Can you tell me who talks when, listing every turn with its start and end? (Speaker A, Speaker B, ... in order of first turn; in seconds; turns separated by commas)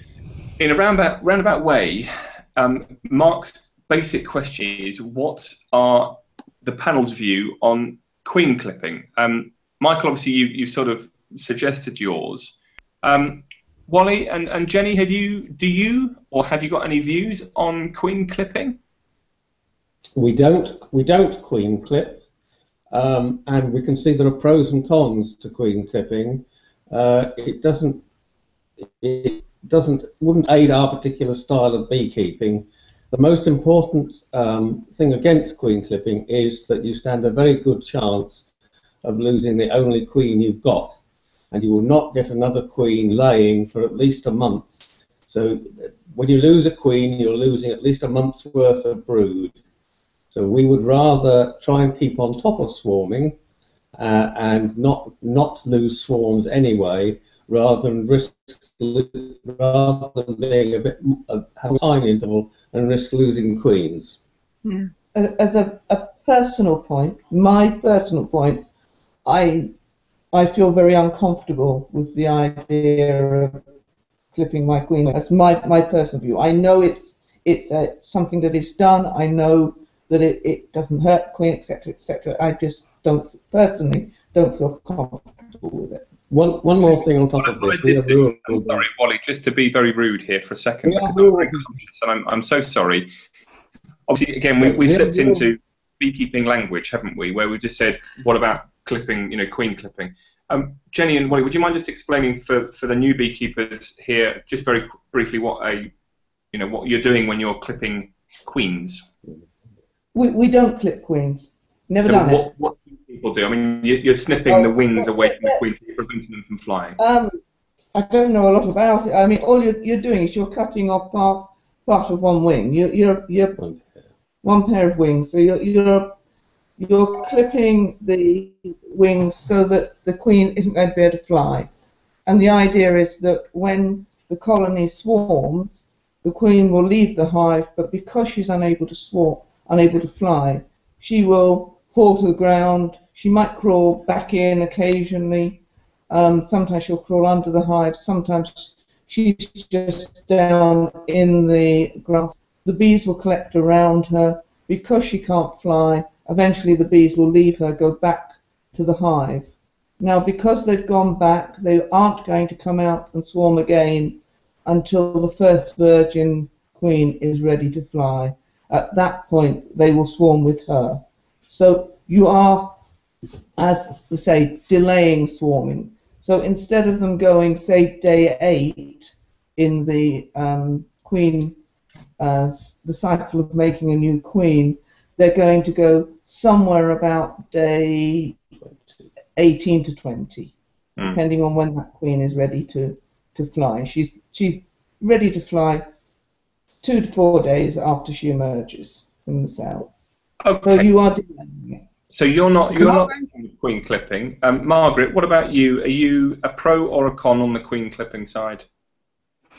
Speaker A: 0.6-18.8, Speaker B: 20.1-22.2, Speaker B: 22.9-28.0, Speaker B: 29.0-38.5, Speaker B: 39.0-41.0, Speaker B: 41.5-49.6, Speaker B: 50.3-53.4, Speaker B: 54.0-64.2, Speaker C: 65.1-68.7, Speaker C: 69.2-69.7, Speaker C: 70.3-73.6, Speaker C: 74.3-86.1, Speaker B: 86.3-88.8, Speaker A: 86.8-93.1, Speaker B: 90.8-91.7, Speaker A: 94.1-105.9, Speaker B: 94.6-95.5, Speaker A: 106.5-109.1, Speaker C: 110.1-112.5, Speaker A: 112.0-117.0, Speaker C: 114.5-115.6, Speaker C: 117.0-117.4, Speaker C: 117.9-123.6, Speaker B: 123.5-124.0, Speaker C: 124.4-126.2, Speaker C: 126.8-131.7, Speaker C: 132.2-172.8, Speaker C: 173.6-181.6, Speaker C: 182.2-195.8, Speaker C: 196.8-199.9, Speaker A: 200.4-200.9, Speaker C: 200.6-201.8, Speaker A: 202.1-208.6, Speaker C: 202.7-203.1